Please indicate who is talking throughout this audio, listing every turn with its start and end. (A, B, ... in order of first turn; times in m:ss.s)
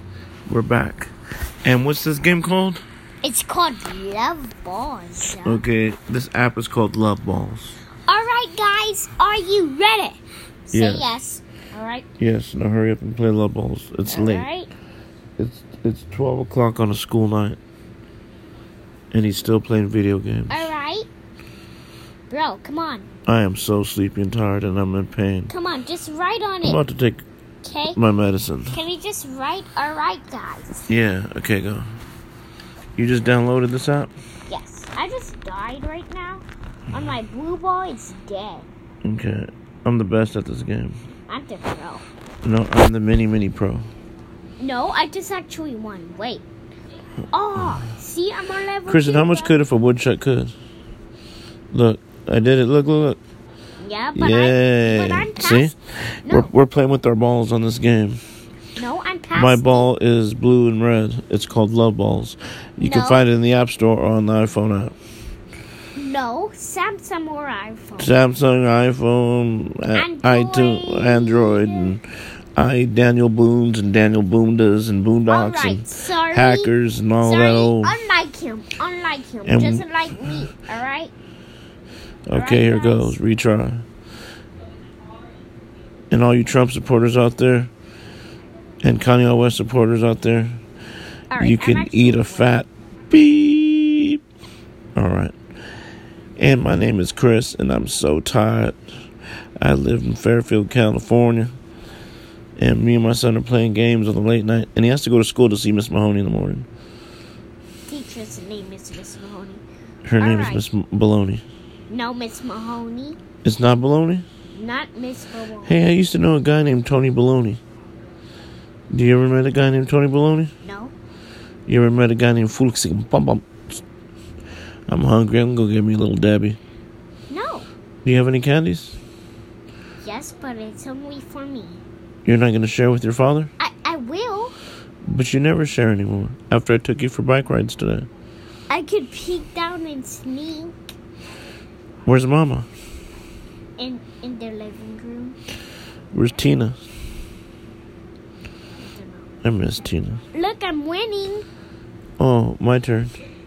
0:00.5-0:01.1 A
0:01.6-0:02.8 A
0:03.2-0:05.6 B
0:05.4-0:07.8 A
0:08.1-0:12.1 B
0:10.7-0:11.0 A
0:12.2-0:14.5 A
0:14.1-0:14.7 B
0:15.4-0:17.6 A
0:19.1-0:20.7 A
0:20.5-0:21.1 B
0:22.3-0:23.1 B
0:23.3-0:25.5 A
0:25.5-0:26.8 B
0:26.6-0:27.2 A
0:27.6-0:28.0 B
0:27.9-0:28.8 A
0:28.7-0:30.9 B
0:30.9-0:31.8 A
0:33.0-0:34.1 A
0:34.5-0:38.7 B
0:39.0-0:41.0 A
0:41.3-0:42.0 B
0:42.4-0:43.9 A
0:44.6-0:46.4 B
0:47.3-0:49.6 B
0:48.9-0:50.6 A
0:51.7-0:53.2 A
0:53.8-0:55.7 B
0:54.2-0:58.2 A
0:56.2-0:56.5 B
0:58.8-0:59.9 B
0:59.4-1:05.0 A
1:02.8-1:03.2 B
1:06.0-1:08.1 B
1:08.0-1:12.0 A
1:09.9-1:12.0 B
1:12.6-1:18.0 A
1:15.3-1:21.1 B
1:19.4-1:20.4 A
1:22.3-1:23.8 A
1:22.3-1:23.2 B
1:26.1-1:27.7 A
1:28.8-1:30.6 A
1:31.3-1:32.5 B
1:31.4-1:34.2 A
1:35.0-1:35.4 A
1:36.4-1:38.8 A
1:39.6-1:41.5 A
1:42.6-1:46.7 A
1:47.9-1:49.6 B
1:50.0-1:51.4 A
1:50.2-1:50.6 B
1:51.9-1:53.2 B
1:53.4-1:54.3 A
1:54.5-1:55.8 B
1:55.6-1:57.6 A
1:58.9-2:00.5 A
2:00.6-2:01.0 B
2:01.7-2:03.8 A
2:04.9-2:06.6 A
2:07.3-2:07.7 B
2:08.0-2:09.0 A
2:10.0-2:11.8 B
2:12.2-2:13.5 A
2:13.6-2:14.6 B
2:15.1-2:18.1 A
2:18.7-2:20.8 B
2:22.1-2:22.7 A
2:23.8-2:25.4 B
2:26.1-2:26.8 A
2:28.8-2:29.3 B
2:29.4-2:30.2 A
2:30.3-2:31.5 B
2:32.2-2:33.1 A